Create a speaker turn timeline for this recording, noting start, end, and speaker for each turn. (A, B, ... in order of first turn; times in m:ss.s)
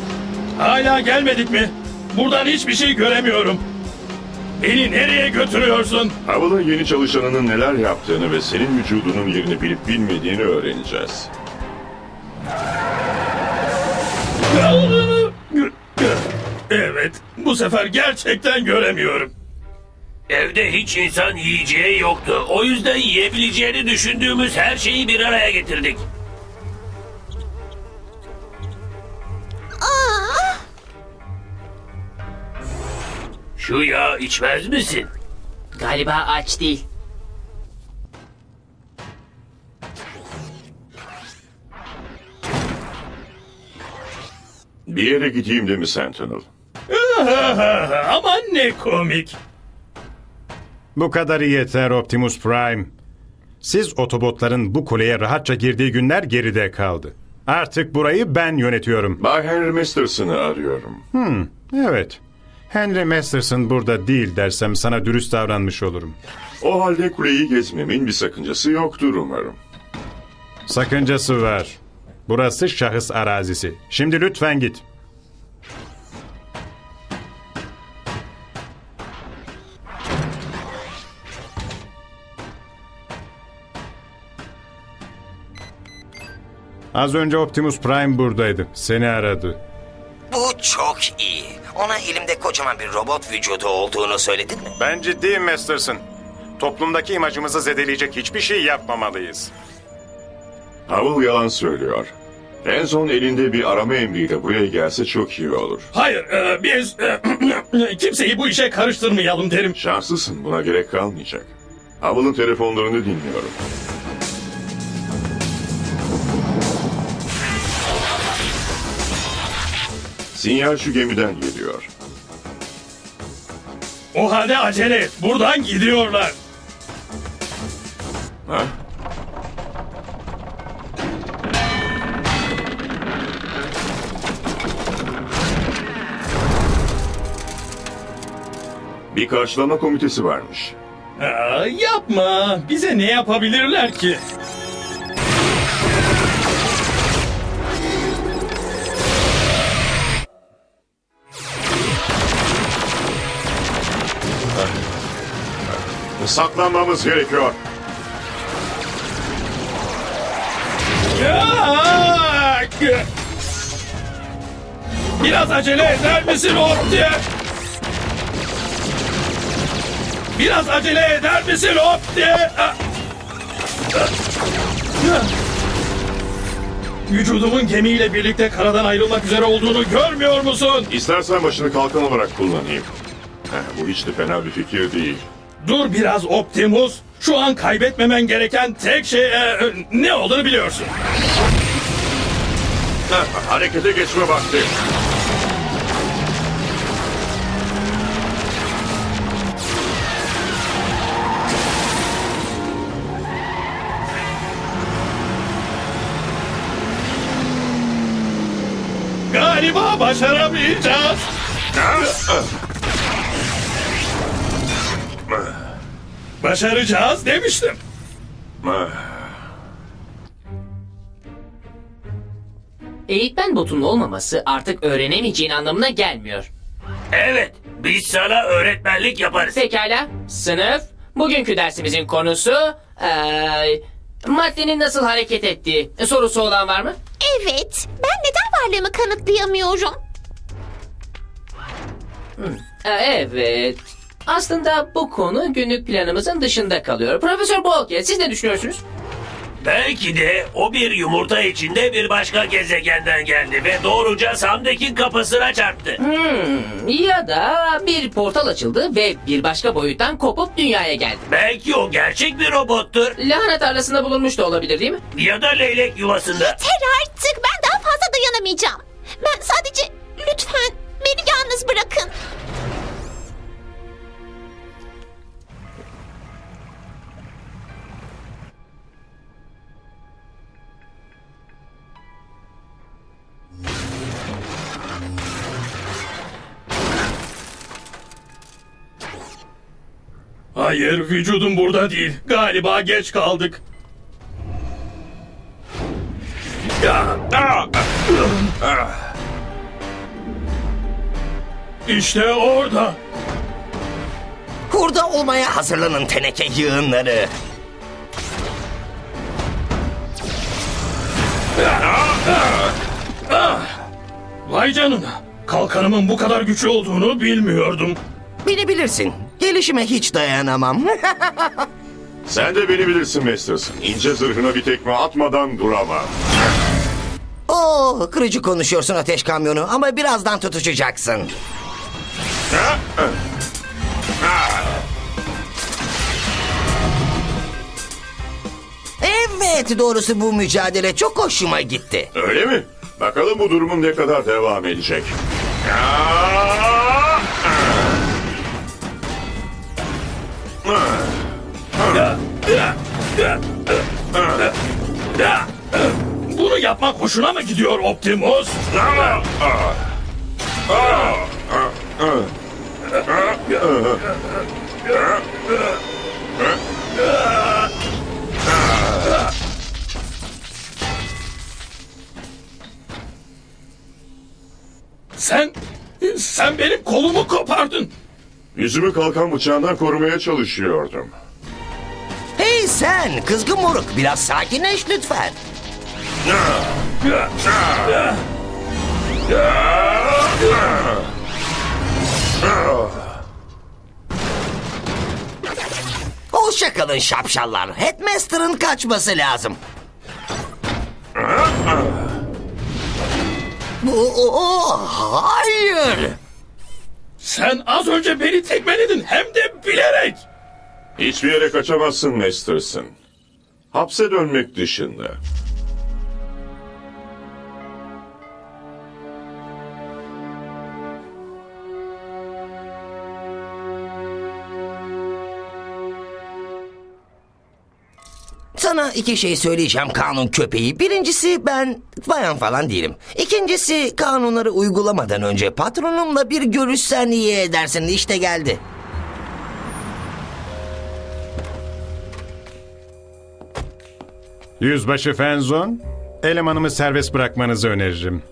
0:00.6-0:03.6 A
0:04.6-0:06.1 A
0:06.2-0:11.3 B
0:14.5-0:19.3 A
0:20.3-0:26.0 C
0:29.8-0:30.6 D
0:33.6-0:35.1 C
0:35.7-0:36.8 E
0:44.9-0:46.5 B
0:46.9-0:49.4 A
0:50.9-0:52.9 F
0:53.6-0:59.2 F
0:59.2-1:01.0 B
1:01.1-1:06.1 F
1:06.6-1:09.6 B
1:10.7-1:14.8 F
1:26.9-1:29.6 F
1:30.3-1:34.7 G
1:34.8-1:36.0 F
1:36.6-1:39.5 F
1:40.9-1:42.1 B
1:42.6-1:45.9 B
1:45.9-1:49.8 A
1:49.7-1:53.6 B
2:00.3-2:01.9 B
2:04.1-2:06.4 A
2:08.4-2:08.7 B
2:19.1-2:20.7 B
2:21.2-2:24.2 A
2:36.2-2:37.6 B
2:41.1-2:43.0 A
2:45.2-2:47.2 A
2:50.3-2:52.8 A
2:55.0-2:55.3 A
2:57.1-3:00.9 A
3:00.9-3:02.9 B
3:03.5-3:05.2 B
3:05.6-3:10.9 A
3:13.1-3:14.7 B
3:29.3-3:31.2 A
3:31.8-3:32.4 B
3:36.4-3:37.8 A
3:38.6-3:39.3 B
3:43.1-3:46.5 E
3:47.1-3:49.6 C
3:49.4-3:57.0 E
3:57.2-4:00.0 D
4:02.4-4:08.8 E
4:09.6-4:16.0 C
4:16.0-4:21.2 E
4:21.3-4:23.1 C
4:23.2-4:25.0 E
4:25.1-4:26.6 C
4:26.3-4:32.1 D
4:50.5-4:53.6 A
4:56.8-4:57.4 A
4:58.1-4:58.6 A
5:01.8-5:03.0 A
5:04.7-5:07.3 G
5:11.6-5:12.5 A
5:13.3-5:13.7 A
5:14.4-5:18.0 A
5:18.4-5:21.7 G
5:22.2-5:26.1 B
5:27.5-5:31.3 G
5:32.6-5:33.1 B
5:39.0-5:42.1 G
5:42.1-5:47.2 B
5:50.6-5:51.0 B
5:51.9-5:53.4 A
5:55.2-5:58.6 A
5:58.7-5:59.8 B
6:00.7-6:02.3 B
6:03.3-6:04.0 B
6:15.2-6:17.9 A
6:18.5-6:21.1 B
6:22.4-6:25.4 G
6:27.9-6:28.1 A
6:36.3-6:39.6 G
6:43.8-6:46.2 G
6:47.2-6:50.2 A
6:51.0-6:52.9 B
6:53.7-6:55.2 B
7:08.5-7:18.6 G
7:24.6-7:28.2 F